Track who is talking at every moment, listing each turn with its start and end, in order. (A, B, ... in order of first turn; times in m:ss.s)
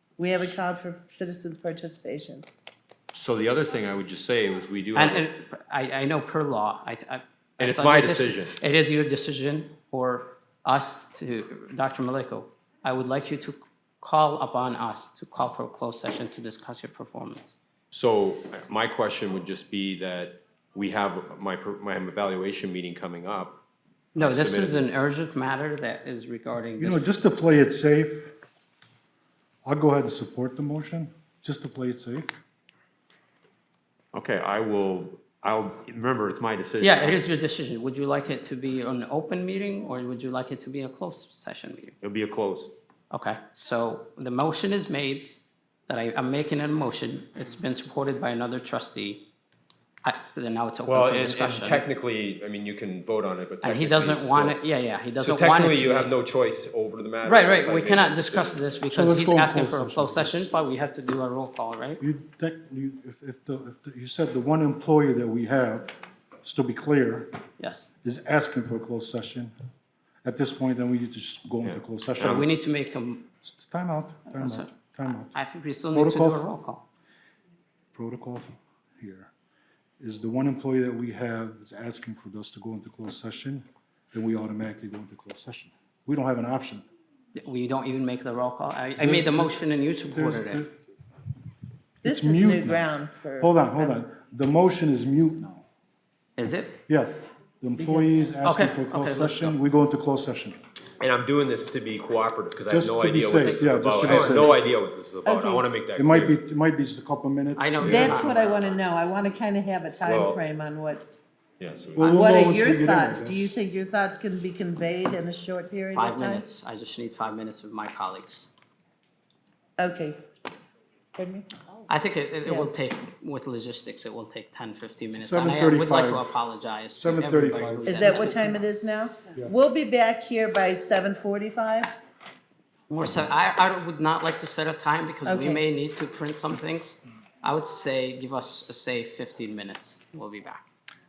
0:00.2-0:02.4 A
0:03.1-0:05.3 B
0:04.9-0:17.5 C
0:07.6-0:08.5 B
0:17.9-0:23.6 B
0:24.1-0:27.0 C
0:24.2-0:24.8 B
0:26.8-0:28.3 D
0:29.6-0:32.4 D
0:34.1-0:37.2 B
0:36.8-0:42.0 C
0:42.0-0:42.7 B
0:43.1-0:45.3 C
0:45.9-0:49.2 C
0:50.0-0:51.8 C
0:50.8-0:54.6 B
0:53.6-0:56.1 C
0:55.2-0:58.7 B
0:57.2-1:02.0 C
0:58.9-1:00.5 D
1:02.0-1:07.3 D
1:07.6-1:07.9 C
1:08.0-1:09.5 D
1:10.2-1:12.5 D
1:11.6-1:12.4 B
1:12.2-1:13.2 C
1:13.4-1:15.3 D
1:14.3-1:16.8 C
1:15.9-1:16.5 D
1:17.9-1:19.3 D
1:20.0-1:26.8 D
1:27.4-1:30.6 C
1:29.0-1:30.8 D
1:32.0-1:35.6 D
1:32.0-1:33.8 A
1:36.4-1:36.8 C
1:36.9-1:40.6 D
1:37.8-1:38.2 A
1:38.4-1:39.5 C
1:41.0-1:46.4 B
1:42.7-1:44.6 D
1:43.4-1:44.6 C
1:45.2-1:45.7 A
1:46.0-1:48.2 D
1:47.6-1:48.7 C
1:47.8-1:48.2 B
1:47.9-1:51.0 A
1:50.0-1:50.4 B
1:51.6-1:52.2 B
1:52.0-1:53.5 D
1:52.0-1:56.4 A
1:55.9-1:58.5 C
1:59.8-2:00.2 A
2:01.2-2:01.5 A
2:01.9-2:08.6 C
2:05.2-2:06.4 D
2:06.9-2:08.4 D
2:07.8-2:11.9 A
2:12.9-2:20.7 C
2:15.2-2:15.6 A